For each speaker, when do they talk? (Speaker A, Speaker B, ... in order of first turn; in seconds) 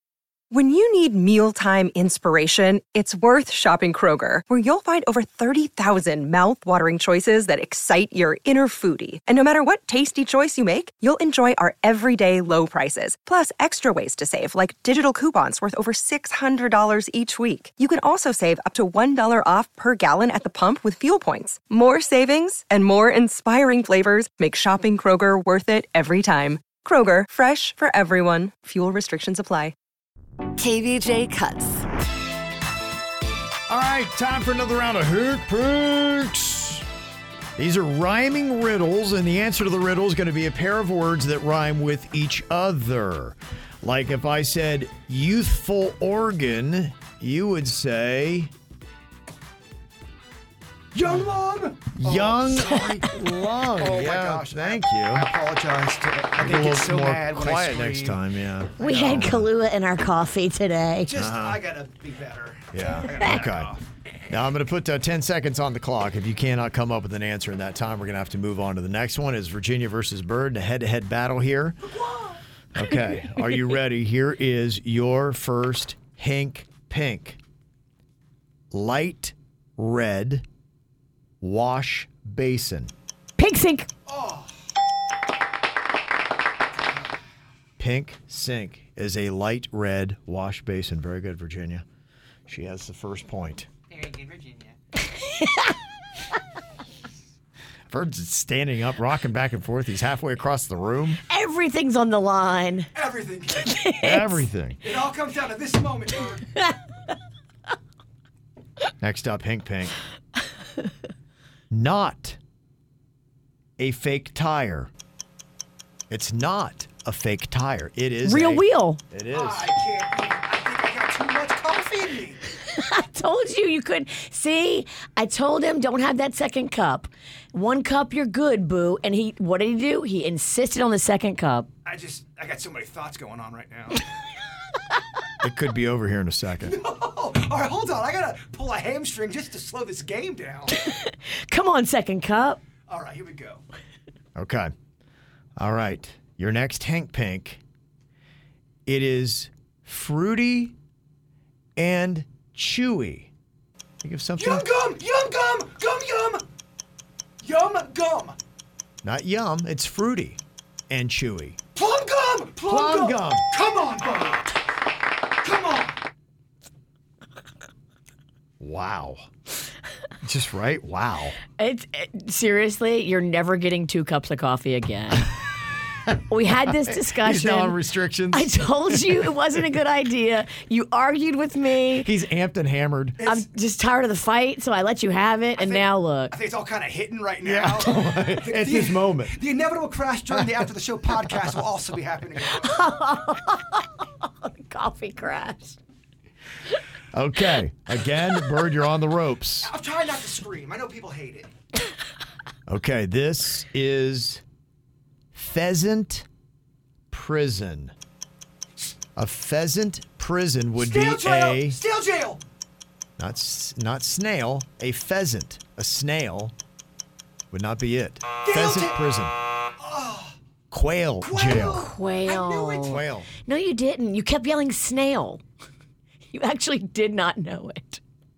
Speaker A: 0.5-29.7, 30.6-31.8
Speaker B: 33.7-36.8, 37.6-48.5, 52.0-55.3, 56.4-59.5, 61.2-61.6, 62.7-63.7, 64.3-71.8, 72.7-77.4, 78.7-80.5, 81.4-82.9, 87.8-91.8, 92.5-93.7, 97.9-101.2, 104.0-104.8, 109.0-110.0, 111.7-112.4, 113.8-114.9, 116.1-119.6, 135.4-136.7, 144.4-144.7, 145.6-147.6, 148.9-150.8, 151.8-153.3, 154.0-154.6, 159.0-161.6, 162.7-163.4, 168.6-169.2, 170.2-171.4, 177.0-179.1, 182.0-183.3, 187.4-189.3, 197.1-199.7, 202.7-204.4, 205.3-206.3, 207.1-207.9, 209.2-211.8, 213.2-216.5, 217.5-219.4, 220.7-221.9, 222.8-223.3
Speaker C: 50.9-53.2, 53.8-58.2, 61.1-63.8, 84.1-84.6, 103.0-103.7, 104.8-106.4, 119.3-122.4, 131.8-134.0, 136.6-140.8, 142.9-143.6, 154.4-156.4, 157.4-158.4, 161.8-164.6, 165.4-166.0, 185.6-192.8, 199.6-201.5, 210.8-212.4, 218.4-219.0, 219.8-220.4, 221.2-223.0
Speaker D: 58.8-61.1, 83.4-83.9, 95.0-95.7, 101.3-102.9, 103.6-104.5, 118.2-119.0, 122.6-131.7, 140.9-142.6, 171.5-175.3, 176.3-177.8, 178.3-182.1, 183.2-186.3, 192.5-195.8, 221.8-225.4, 226.3-228.0